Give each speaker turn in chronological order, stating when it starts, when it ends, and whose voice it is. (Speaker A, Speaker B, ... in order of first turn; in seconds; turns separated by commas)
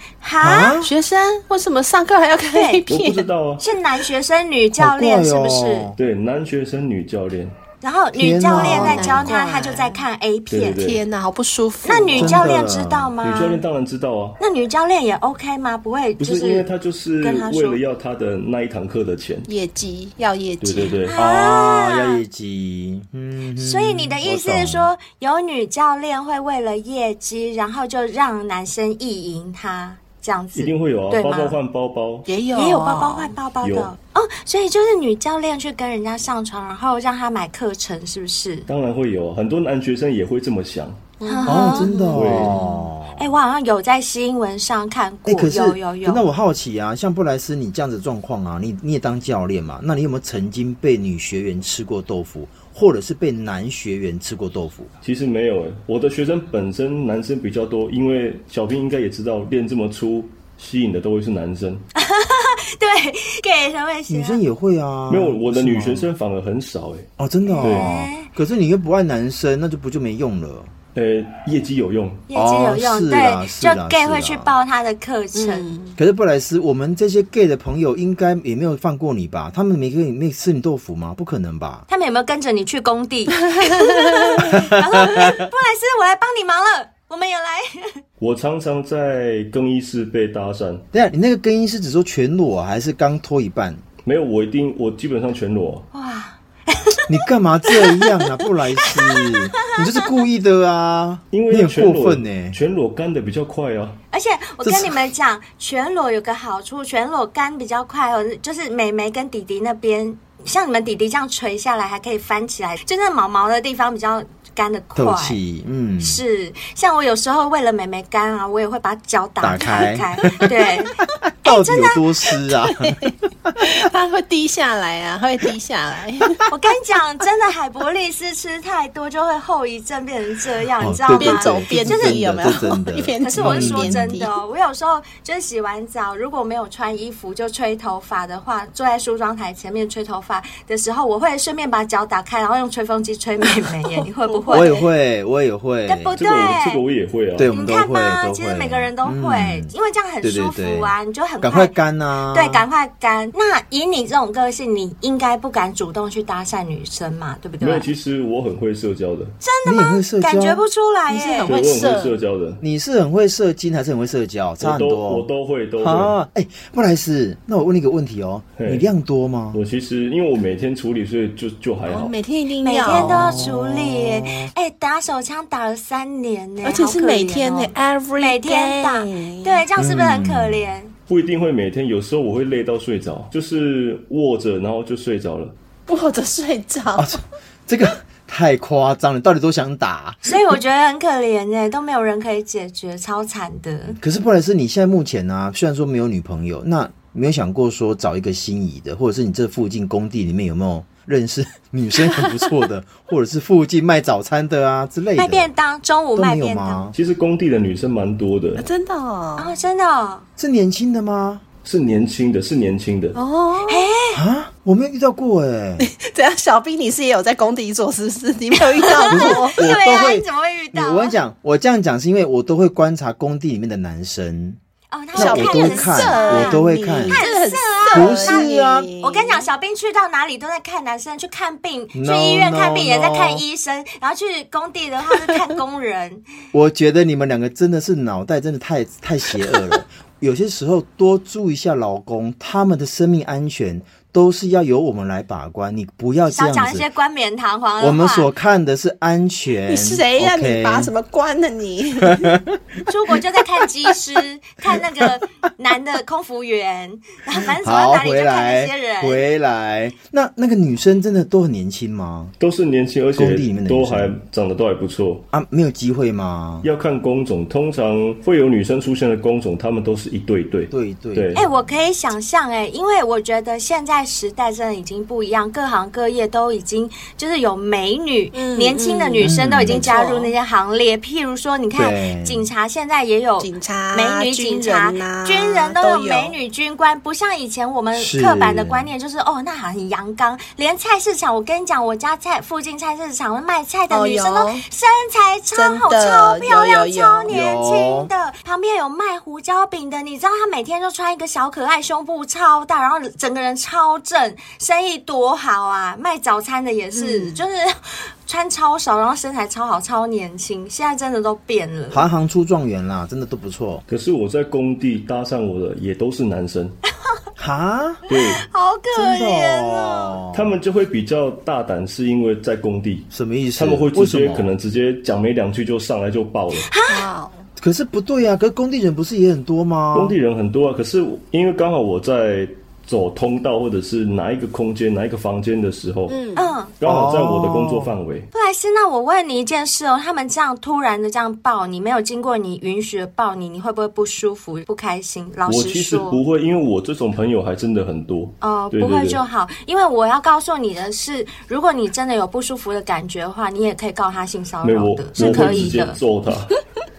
Speaker A: 0.2-0.8, Speaker B: 0.4-0.9, Speaker C: 0.8-3.2, Speaker A: 2.5-2.8, Speaker D: 2.9-3.6, Speaker A: 3.6-5.9, Speaker B: 4.8-6.0, Speaker D: 6.0-7.5, Speaker A: 7.8-10.8, Speaker B: 8.1-9.3, Speaker C: 8.5-10.0, Speaker D: 10.5-11.0, Speaker C: 10.8-12.4, Speaker A: 11.8-13.6, Speaker B: 12.2-13.1, Speaker D: 13.2-14.4, Speaker A: 14.4-16.7, Speaker D: 16.2-19.5, Speaker A: 17.2-17.8, Speaker C: 19.5-21.0, Speaker D: 20.6-21.2, Speaker A: 21.1-22.2, Speaker B: 21.1-24.9, Speaker A: 23.6-31.6, Speaker D: 30.5-32.3, Speaker C: 32.3-33.3, Speaker A: 32.5-38.7, Speaker D: 33.6-33.9, Speaker D: 38.7-41.0, Speaker C: 41.2-42.1, Speaker A: 41.2-46.2, Speaker B: 41.4-43.3, Speaker D: 42.1-42.6, Speaker B: 45.2-54.9, Speaker D: 55.0-61.8, Speaker A: 62.0-64.4, Speaker B: 64.1-66.1, Speaker D: 65.1-67.1, Speaker B: 67.2-70.7, Speaker A: 67.5-68.3, Speaker D: 67.6-67.9, Speaker D: 70.9-72.2, Speaker A: 72.3-75.7, Speaker B: 72.3-74.5, Speaker C: 75.3-76.0, Speaker B: 76.0-81.8, Speaker A: 81.9-88.0, Speaker C: 83.5-84.4, Speaker B: 84.5-85.4, Speaker D: 88.2-90.8, Speaker B: 90.9-93.8, Speaker D: 94.0-95.9, Speaker A: 95.9-97.2, Speaker B: 97.1-102.6, Speaker A: 97.7-98.3, Speaker A: 98.8-100.1, Speaker D: 101.3-104.0, Speaker A: 104.1-115.4, Speaker B: 104.6-105.1, Speaker B: 115.0-116.2, Speaker A: 116.0-122.0, Speaker B: 119.4-123.5, Speaker C: 122.8-126.5, Speaker A: 126.5-132.6, Speaker B: 130.8-134.1, Speaker C: 131.1-134.3, Speaker A: 133.2-144.8, Speaker C: 144.3-144.8, Speaker B: 144.5-146.2, Speaker A: 145.9-146.8, Speaker D: 146.2-147.5, Speaker B: 147.4-152.6, Speaker A: 147.5-151.7, Speaker A: 152.3-157.8, Speaker D: 157.6-159.4, Speaker A: 159.4-161.5, Speaker B: 159.6-160.6, Speaker C: 161.1-162.1, Speaker D: 161.4-162.6, Speaker B: 162.6-165.3, Speaker D: 164.6-166.1, Speaker B: 165.8-169.6, Speaker D: 168.6-168.9, Speaker D: 169.5-172.1, Speaker C: 171.8-173.4, Speaker A: 172.6-180.9, Speaker B: 172.8-174.5, Speaker C: 176.6-179.6, Speaker B: 179.8-180.7, Speaker D: 181.1-185.5, Speaker C: 185.9-187.2, Speaker B: 186.9-190.3, Speaker A: 190.2-194.0, Speaker B: 194.0-205.5, Speaker A: 205.2-206.9, Speaker B: 206.1-206.9, Speaker D: 206.9-208.6, Speaker C: 208.6-209.5, Speaker A: 209.4-210.2, Speaker B: 210.4-211.4, Speaker D: 211.6-213.2, Speaker C: 213.1-213.9, Speaker A: 213.7-214.2, Speaker B: 214.1-215.9, Speaker C: 215.8-219.6, Speaker A: 218.9-221.1, Speaker B: 219.1-224.6, Speaker A: 224.9-236.2, Speaker B: 225.1-227.2, Speaker C: 225.2-229.5, Speaker B: 227.9-228.9, Speaker B: 231.9-233.4, Speaker B: 236.5-246.9, Speaker A: 246.3-248.3, Speaker B: 247.8-250.9, Speaker C: 249.7-252.4, Speaker B: 252.0-252.6, Speaker A: 252.8-259.2, Speaker B: 257.6-262.3, Speaker D: 262.4-265.2, Speaker B: 263.1-264.1, Speaker B: 265.3-266.7, Speaker D: 266.6-271.4, Speaker B: 270.7-271.7, Speaker A: 271.4-312.1, Speaker C: 278.3-280.3, Speaker B: 279.2-279.9, Speaker B: 281.7-282.5, Speaker C: 283.4-286.3, Speaker B: 287.9-288.9, Speaker C: 293.9-294.6, Speaker C: 295.5-297.3, Speaker B: 297.3-298.1, Speaker C: 306.9-307.4, Speaker B: 311.9-313.8, Speaker D: 313.9-316.8, Speaker B: 317.4-318.0, Speaker D: 318.1-318.4, Speaker A: 318.1-320.1, Speaker B: 318.9-320.6, Speaker D: 320.3-326.7, Speaker B: 323.1-324.5, Speaker A: 326.6-327.0, Speaker C: 326.9-327.4, Speaker B: 327.6-330.1, Speaker D: 329.9-336.1, Speaker C: 336.1-336.6, Speaker A: 336.4-336.7, Speaker D: 336.8-338.3, Speaker B: 336.8-337.9, Speaker A: 338.3-346.2, Speaker D: 345.4-349.2, Speaker A: 348.4-356.0, Speaker D: 354.6-356.6, Speaker B: 355.1-355.8